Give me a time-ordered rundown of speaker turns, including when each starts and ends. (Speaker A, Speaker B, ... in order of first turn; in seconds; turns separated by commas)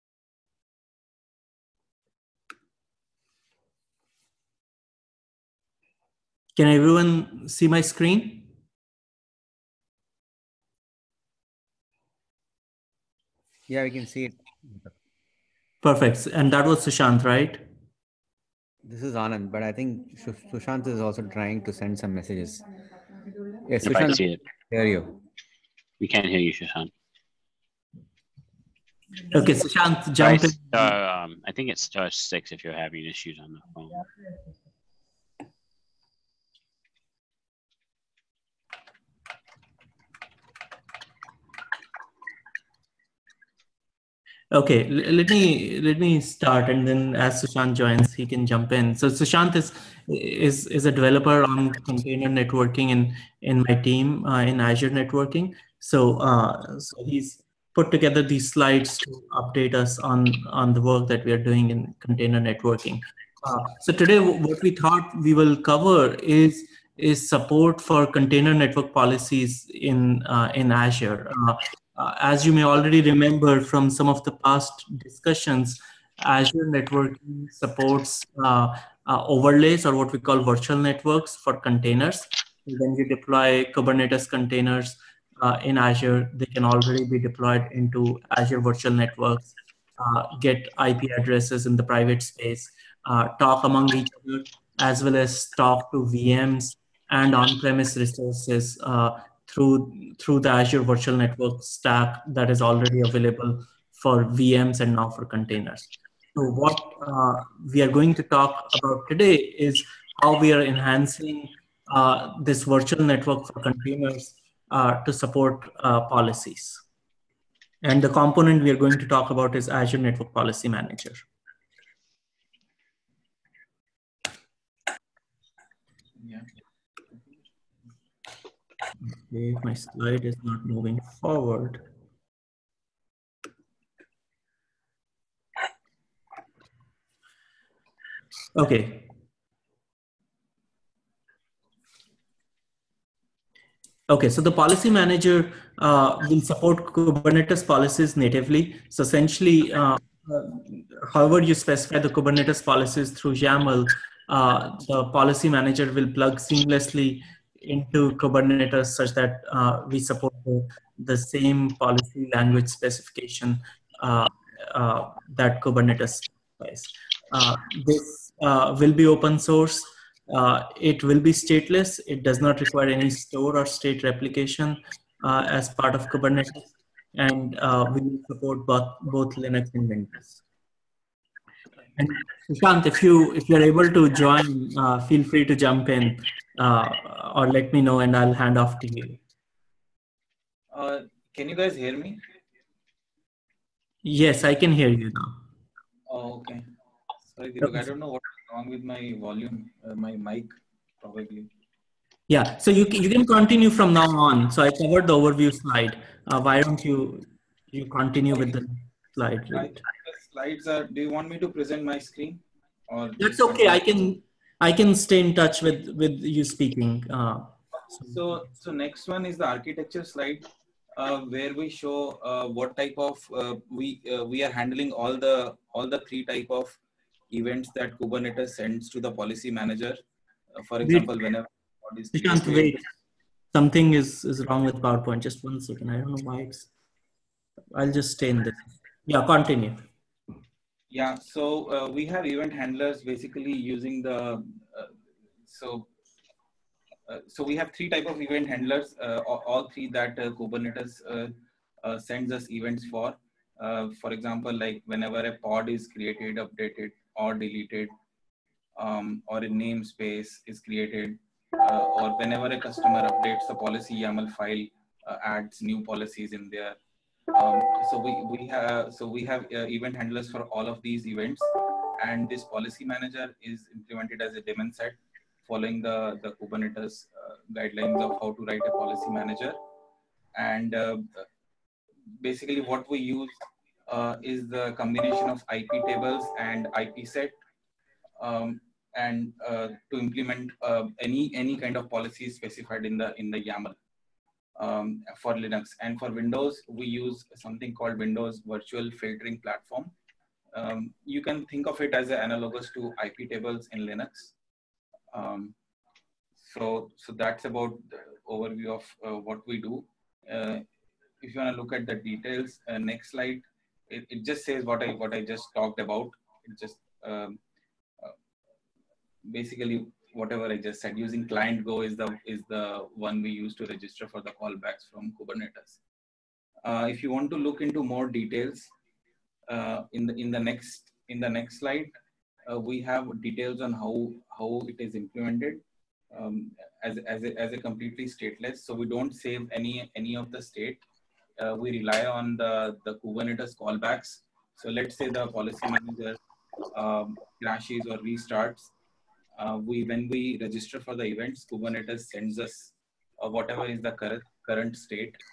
Speaker A: 6.6-8.5, Speaker B: 13.7-14.9, Speaker A: 15.8-17.6, Speaker B: 18.8-22.6, Speaker B: 23.7-25.2, Speaker C: 23.8-24.4, Speaker C: 26.0-26.9, Speaker A: 29.3-30.9, Speaker C: 30.2-34.1, Speaker A: 44.5-116.8, Speaker A: 117.8-121.2, Speaker D: 126.2-126.5, Speaker A: 129.1-131.8, Speaker A: 138.5-139.1, Speaker A: 144.1-180.4, Speaker A: 182.0-189.2, Speaker D: 190.7-192.2, Speaker A: 194.0-195.4, Speaker D: 196.1-196.7, Speaker D: 197.3-201.5, Speaker A: 197.6-197.9, Speaker A: 202.3-209.8, Speaker D: 209.5-213.8, Speaker A: 213.2-218.2, Speaker D: 218.1-226.8, Speaker D: 227.3-230.0, Speaker D: 230.5-232.8, Speaker A: 232.1-232.9, Speaker A: 233.5-236.7, Speaker A: 237.7-239.8, Speaker D: 240.9-244.9, Speaker D: 245.5-245.9, Speaker D: 247.1-257.9, Speaker D: 258.8-266.8, Speaker D: 267.3-279.6, Speaker D: 280.4-281.3, Speaker D: 282.2-287.4, Speaker D: 288.2-293.8, Speaker D: 294.6-299.9, Speaker D: 300.5-304.3, Speaker D: 305.1-305.6, Speaker D: 306.4-310.6, Speaker D: 311.2-317.4, Speaker D: 319.3-325.8, Speaker D: 326.6-328.7, Speaker D: 329.5-331.9, Speaker D: 332.5-340.8, Speaker D: 341.4-346.2, Speaker D: 346.7-348.7, Speaker D: 349.4-355.2